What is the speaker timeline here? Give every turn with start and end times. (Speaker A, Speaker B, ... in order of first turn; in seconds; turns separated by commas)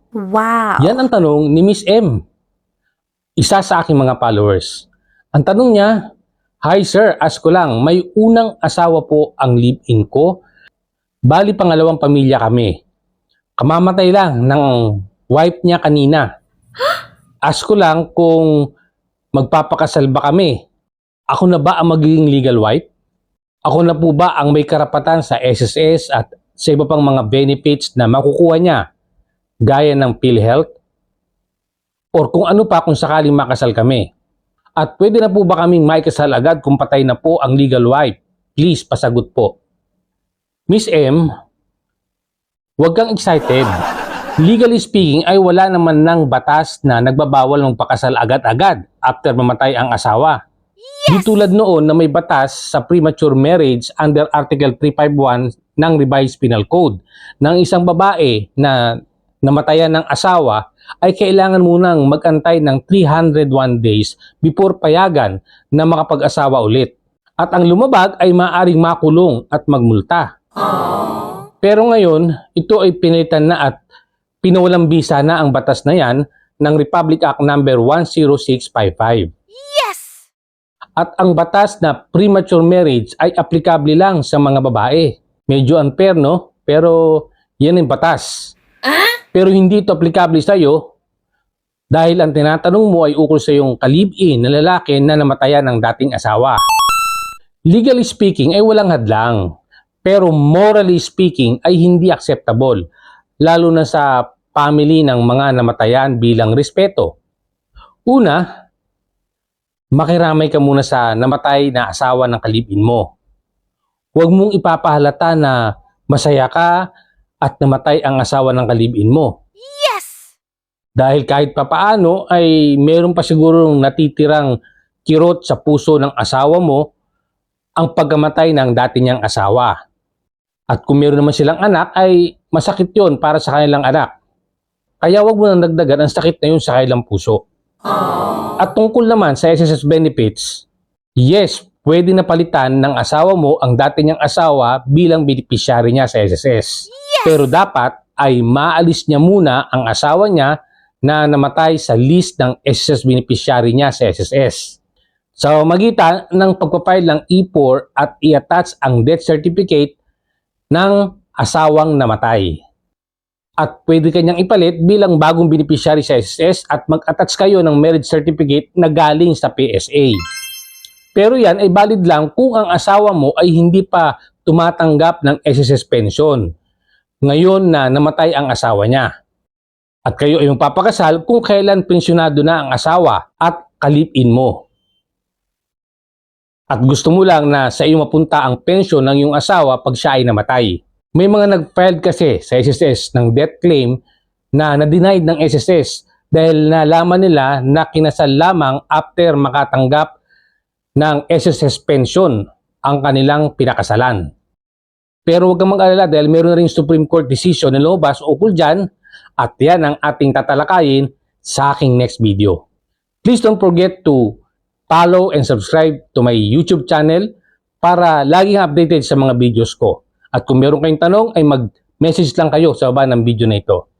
Speaker A: 0.2-1.0, Speaker B: 0.8-2.1, Speaker B: 3.4-5.9, Speaker B: 6.6-10.4, Speaker B: 11.3-12.7, Speaker B: 13.6-16.3, Speaker B: 17.5-18.5, Speaker B: 19.3-20.6, Speaker B: 21.3-22.9, Speaker B: 23.6-28.8, Speaker B: 29.6-30.6, Speaker B: 32.1-34.1, Speaker B: 34.8-39.5, Speaker B: 40.7-41.2, Speaker B: 42.8-43.7, Speaker B: 44.4-50.4, Speaker A: 51.0-51.2, Speaker B: 51.1-58.8, Speaker B: 59.4-70.3, Speaker B: 71.6-73.8, Speaker B: 74.4-79.3, Speaker A: 79.6-80.2, Speaker B: 81.0-88.5, Speaker B: 89.3-90.8, Speaker B: 91.9-96.6, Speaker B: 97.7-99.4, Speaker B: 100.0-102.8, Speaker B: 103.4-107.1, Speaker B: 108.1-108.4, Speaker B: 110.0-113.1, Speaker B: 114.1-115.6, Speaker B: 116.1-116.7, Speaker B: 117.4-119.3, Speaker A: 119.7-120.2, Speaker B: 121.0-124.5, Speaker B: 125.0-126.8, Speaker B: 127.8-129.7, Speaker B: 130.7-134.1, Speaker B: 135.0-137.4, Speaker B: 138.6-140.7, Speaker B: 141.2-150.5, Speaker A: 147.1-147.3, Speaker B: 151.1-154.8, Speaker B: 155.4-159.9, Speaker B: 160.7-162.5, Speaker B: 163.6-170.2, Speaker B: 171.1-176.4, Speaker B: 177.2-179.1, Speaker B: 180.1-184.6, Speaker B: 186.7-194.0, Speaker B: 194.6-200.1, Speaker B: 201.0-204.2, Speaker B: 205.2-208.8, Speaker B: 209.4-212.6, Speaker B: 213.2-214.4, Speaker B: 214.9-217.3, Speaker B: 217.8-223.8